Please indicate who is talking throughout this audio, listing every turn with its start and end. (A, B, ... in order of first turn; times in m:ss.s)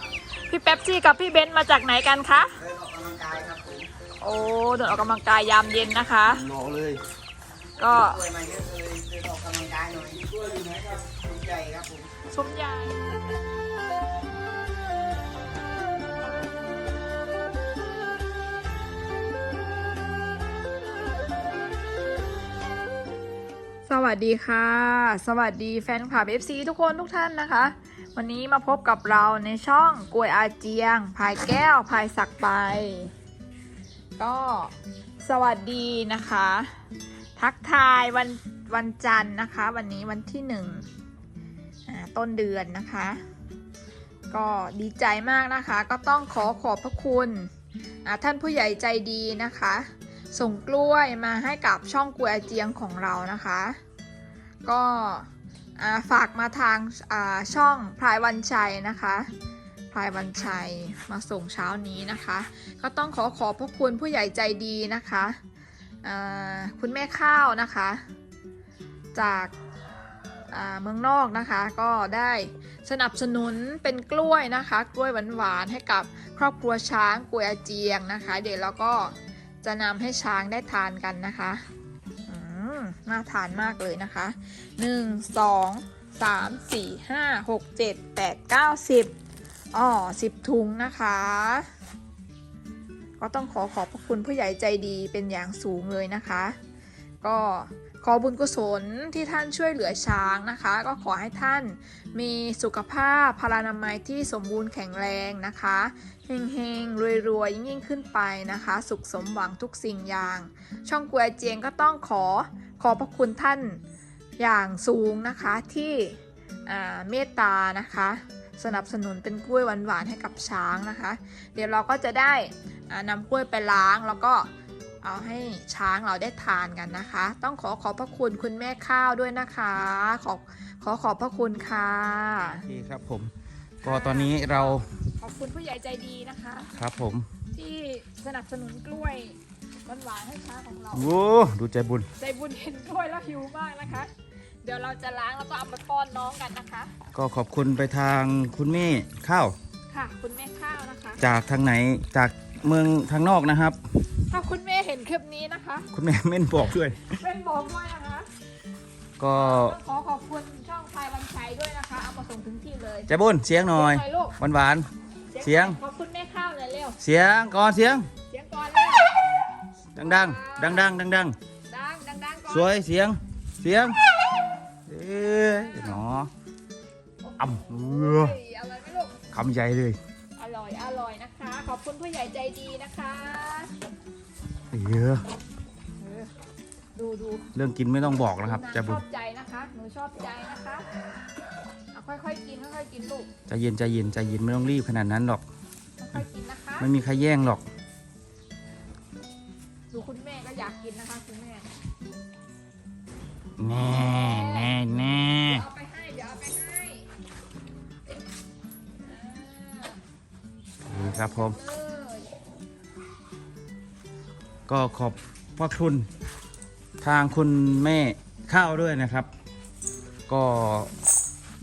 0:00.5-0:02.6 A
0:02.6-0:03.9 B
0:04.2-0:06.4 A
0:06.3-0:07.0 C
0:07.8-0:08.2 A
0:07.9-0:12.1 B
0:10.3-0:10.7 C
0:12.3-0:13.0 A
0:23.9-0:33.1 A
0:34.2-0:36.8 A
0:37.4-0:40.9 A
0:41.9-0:43.2 A
0:44.3-0:47.5 A
0:48.0-0:53.8 A
0:54.7-0:59.3 A
0:59.9-1:05.4 A
1:06.0-1:08.0 A
1:09.2-1:09.5 A
1:10.5-1:21.6 A
1:22.3-1:29.2 A
1:29.7-1:31.7 A
1:33.2-1:36.6 A
1:37.2-1:53.8 A
1:54.4-2:04.5 A
2:05.0-2:12.7 A
2:12.5-2:14.9 C
2:13.8-2:16.7 A
2:16.7-2:17.3 C
2:17.5-2:21.2 A
2:20.9-2:22.1 C
2:22.2-2:24.1 A
2:24.6-2:26.9 A
2:27.1-2:29.6 C
2:29.9-2:31.2 A
2:31.2-2:33.8 C
2:34.3-2:35.9 A
2:35.9-2:37.2 C
2:37.2-2:38.3 A
2:39.2-2:39.8 C
2:39.3-2:43.1 A
2:43.1-2:44.9 C
2:43.7-2:44.4 A
2:45.3-2:47.0 A
2:45.4-2:45.8 C
2:47.0-2:48.1 C
2:48.3-2:49.4 A
2:50.0-2:51.4 C
2:50.0-2:50.9 A
2:51.7-2:52.8 A
2:52.5-2:54.0 C
2:54.9-2:56.3 C
2:55.3-2:56.0 A
2:57.2-2:59.2 A
2:57.4-2:58.4 C
2:59.3-3:00.0 C
3:00.4-3:03.7 A
3:04.7-3:05.2 C
3:06.0-3:06.3 A
3:07.0-3:07.5 A
3:07.6-3:09.0 C
3:08.4-3:10.9 A
3:11.9-3:13.3 A
3:13.5-3:15.4 C
3:16.0-3:16.9 A
3:16.8-3:17.6 C
3:19.9-3:21.7 A
3:23.6-3:25.6 C
3:23.9-3:27.1 A
3:29.0-3:30.0 A
3:30.9-3:31.6 C
3:31.0-3:32.3 A
3:34.7-3:36.1 C
3:37.0-3:39.3 C
3:40.3-3:40.9 C